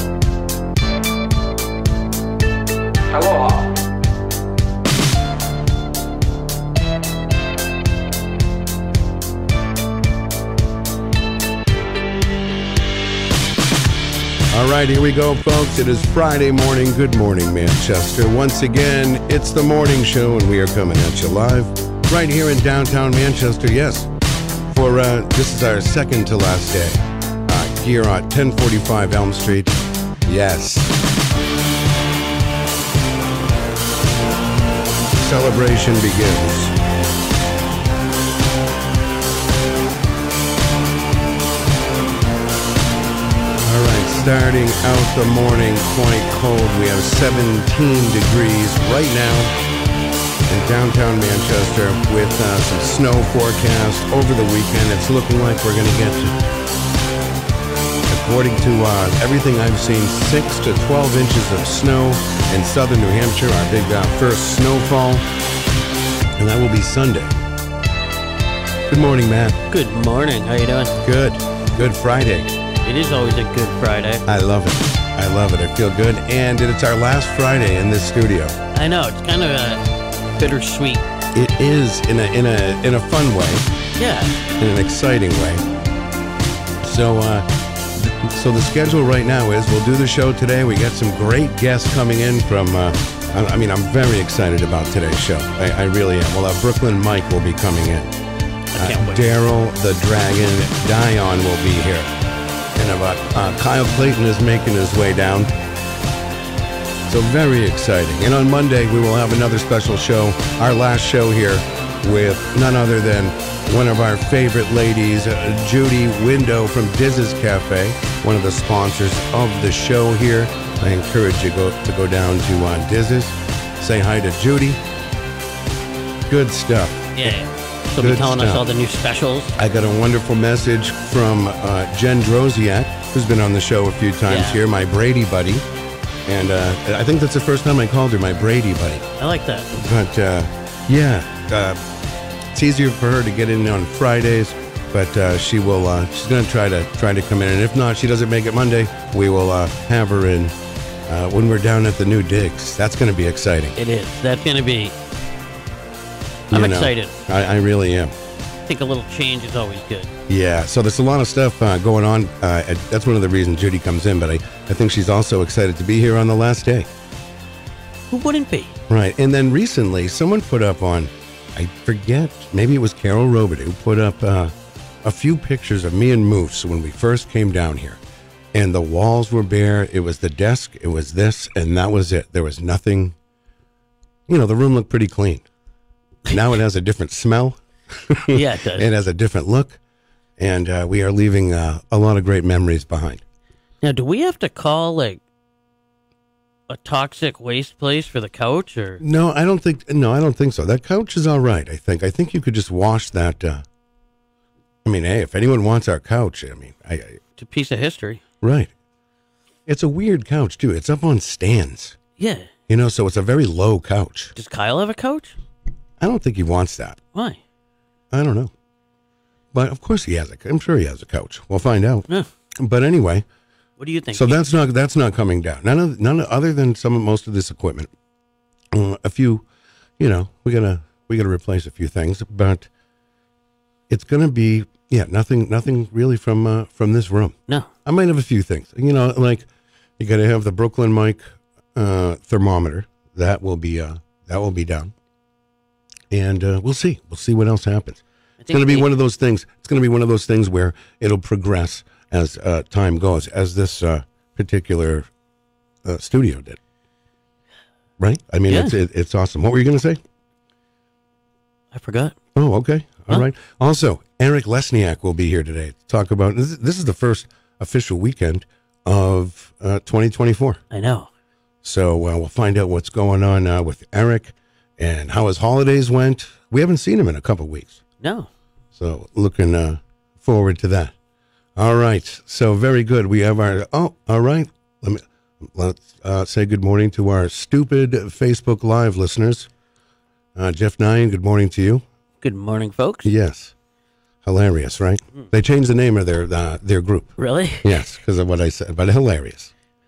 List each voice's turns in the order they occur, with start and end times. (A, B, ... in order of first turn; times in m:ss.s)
0:14.5-0:24.1 A
0:24.7-0:29.8 A
0:30.3-0:31.0 A
0:35.2-0:36.8 A
0:43.6-0:49.5 A
0:50.5-0:56.4 A
0:58.1-1:05.2 A
1:06.4-1:07.4 A
1:08.9-1:09.6 A
1:09.7-1:11.0 B
1:11.0-1:12.5 A
1:12.8-1:14.2 B
1:14.2-1:18.6 A
1:18.7-1:19.8 B
1:20.4-1:21.0 B
1:21.3-1:23.6 A
1:24.0-1:24.4 B
1:24.6-1:25.6 A
1:26.8-1:38.1 A
1:38.7-1:39.2 B
1:38.8-1:42.1 A
1:42.8-1:45.5 A
1:47.1-2:04.8 A
2:06.3-2:07.3 A
2:07.2-2:09.6 B
2:08.0-2:08.6 A
2:09.6-2:15.6 A
2:14.3-2:14.6 B
2:16.3-2:19.0 A
2:19.2-2:19.7 B
2:19.7-2:21.8 A
2:22.5-2:30.6 A
2:31.1-2:33.8 A
2:33.8-2:35.0 B
2:36.5-2:38.1 A
2:36.5-2:37.1 B
2:38.7-2:40.1 B
2:40.3-2:46.9 A
2:48.1-2:48.7 B
2:48.9-2:54.5 A
2:55.0-2:58.0 A
2:58.5-3:03.2 A
3:04.3-3:05.4 A
3:06.3-3:09.8 A
3:08.3-3:08.9 B
3:10.4-3:13.2 A
3:13.8-3:15.2 B
3:16.7-3:19.0 B
3:19.0-3:23.6 A
3:24.8-3:27.2 A
3:27.4-3:28.2 B
3:28.4-3:28.7 A
3:29.7-3:32.0 A
3:32.2-3:32.5 B
3:32.7-3:34.3 A
3:34.4-3:35.4 B
3:36.0-3:37.0 A
3:37.1-3:37.4 B
3:38.1-3:38.5 A
3:39.5-3:42.1 A
3:42.6-3:43.2 A
3:43.8-3:44.4 B
3:44.1-3:47.9 A
3:48.7-3:49.4 A
3:50.0-3:52.7 A
3:53.9-3:59.5 A
4:00.0-4:04.9 A
4:06.1-4:15.1 A
4:08.4-4:08.9 B
4:15.8-4:16.6 A
4:18.0-4:20.0 A
4:18.5-4:18.7 B
4:21.7-4:22.2 B
4:22.4-4:30.6 A
4:30.7-4:31.1 B
4:31.6-4:37.8 A
4:38.0-4:38.3 B
4:38.8-4:40.9 A
4:41.6-4:49.5 A
4:50.4-4:51.8 A
4:52.2-4:53.1 B
4:53.0-4:53.5 A
4:54.2-4:59.5 A
4:57.2-4:57.6 B